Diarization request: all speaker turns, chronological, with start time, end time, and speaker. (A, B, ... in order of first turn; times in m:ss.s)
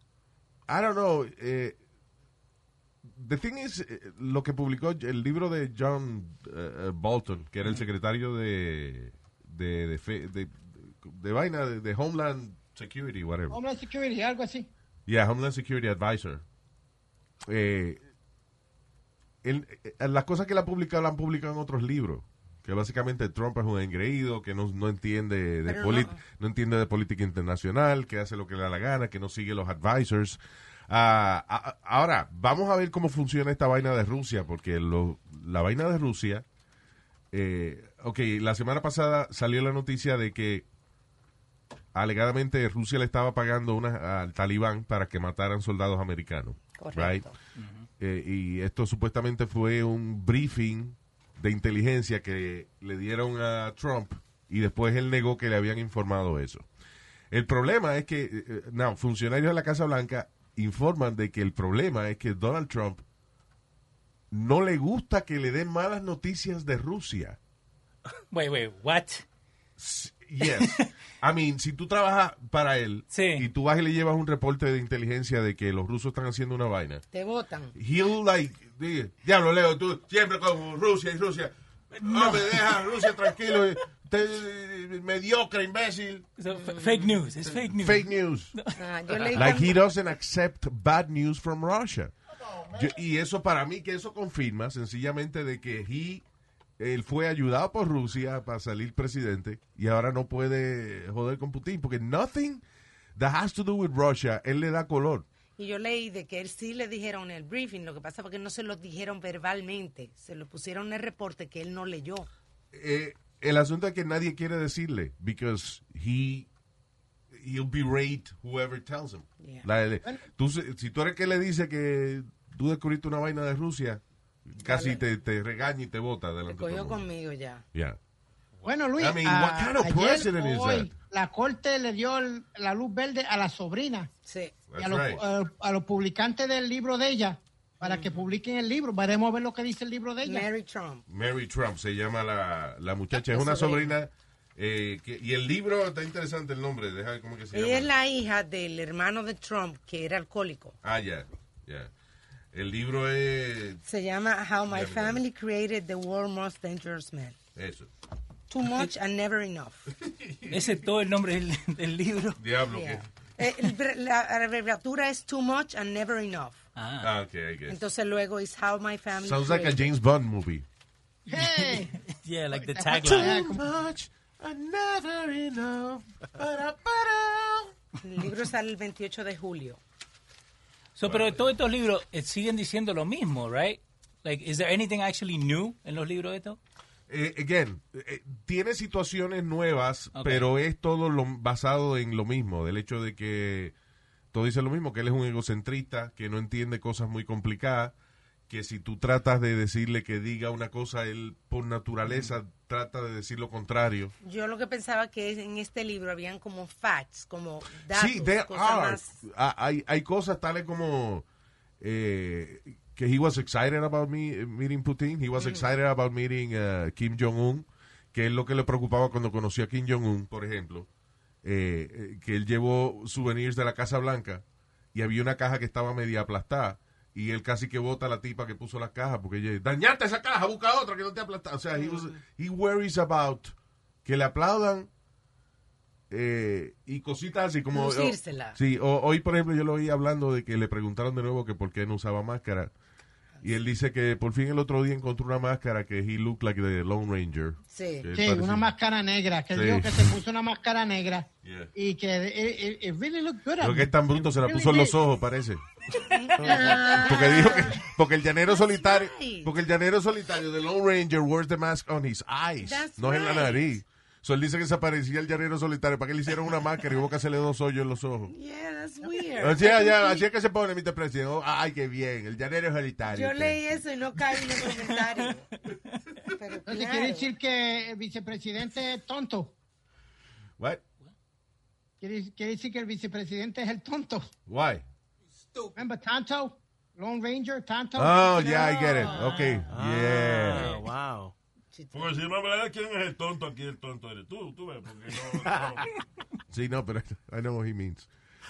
0:00.7-0:01.8 A
0:03.1-0:13.6 A
0:13.5-0:14.7 B
0:15.1-0:16.4 A
0:17.5-0:18.0 A
0:19.4-0:36.4 A
0:25.6-0:26.2 C
0:37.3-0:40.6 A
0:41.9-0:47.2 A
0:46.8-0:47.3 C
0:47.6-0:47.9 D
0:48.0-0:56.7 A
0:57.3-1:03.0 A
1:04.3-1:07.4 A
1:08.3-1:09.2 D
1:09.8-1:17.0 A
1:10.5-1:10.9 D
1:13.1-1:13.4 D
1:17.1-1:17.8 C
1:17.7-1:26.3 A
1:22.0-1:22.8 D
1:26.4-1:29.5 D
1:26.5-1:27.2 C
1:27.8-1:28.5 A
1:28.8-1:29.8 C
1:29.3-1:32.1 A
1:32.7-1:36.2 A
1:36.8-1:42.6 A
1:43.1-1:45.2 A
1:45.6-1:52.3 C
1:52.7-1:56.5 A
1:57.3-2:07.1 A
1:59.4-1:59.6 C
2:04.6-2:05.0 C
2:06.5-2:07.6 C
2:08.6-2:14.1 B
2:09.0-2:10.9 A
2:14.2-2:14.6 C
2:14.7-2:15.2 A
2:14.8-2:20.4 B
2:17.8-2:18.2 C
2:20.2-2:21.0 C
2:21.1-2:27.9 A
2:23.1-2:24.0 C
2:27.5-2:30.8 C
2:30.8-2:31.9 A
2:32.5-2:33.8 A
2:33.8-2:37.4 C
2:34.7-2:35.2 A
2:37.6-2:37.9 A
2:38.5-2:39.9 C
2:40.1-2:40.6 A
2:40.5-2:42.4 D
2:42.4-2:43.1 A
2:42.7-2:46.6 C
2:46.8-2:47.1 D
2:47.0-2:47.8 A
2:47.7-2:49.9 C
2:49.2-2:50.6 A
2:51.3-2:52.0 B
2:51.3-2:53.5 D
2:52.5-2:53.6 B
2:53.0-2:57.7 A
2:58.0-2:59.8 C
3:01.0-3:06.6 D
3:01.0-3:01.4 A
3:07.1-3:13.7 A
3:10.1-3:10.5 D
3:14.3-3:17.9 A
3:18.5-3:24.1 A
3:24.2-3:29.2 C
3:27.9-3:31.2 A
3:31.8-3:40.9 A
3:35.4-3:35.7 C
3:41.4-3:53.5 A
3:51.8-3:52.1 C
3:54.0-3:54.9 A
3:56.1-4:02.7 A
3:57.7-3:58.6 C
4:03.4-4:08.7 A
4:07.7-4:08.0 C
4:08.2-4:14.9 B
4:09.5-4:10.2 A
4:11.4-4:11.7 A
4:13.6-4:15.6 A
4:15.9-4:17.8 C
4:16.4-4:16.8 E
4:16.4-4:28.3 A
4:18.4-4:19.5 C
4:22.6-4:23.8 C
4:28.3-4:30.2 C
4:29.4-4:34.4 A
4:33.1-4:35.5 C
4:36.3-4:37.3 C
4:36.7-4:39.5 B
4:42.0-4:44.3 B
4:44.5-4:44.8 A
4:45.7-4:48.7 B
4:48.0-4:50.7 A
4:48.4-4:49.6 C
4:49.7-4:51.3 E
4:50.5-4:50.8 D
4:51.7-4:52.2 C
4:51.9-4:55.9 F
4:56.5-4:58.1 A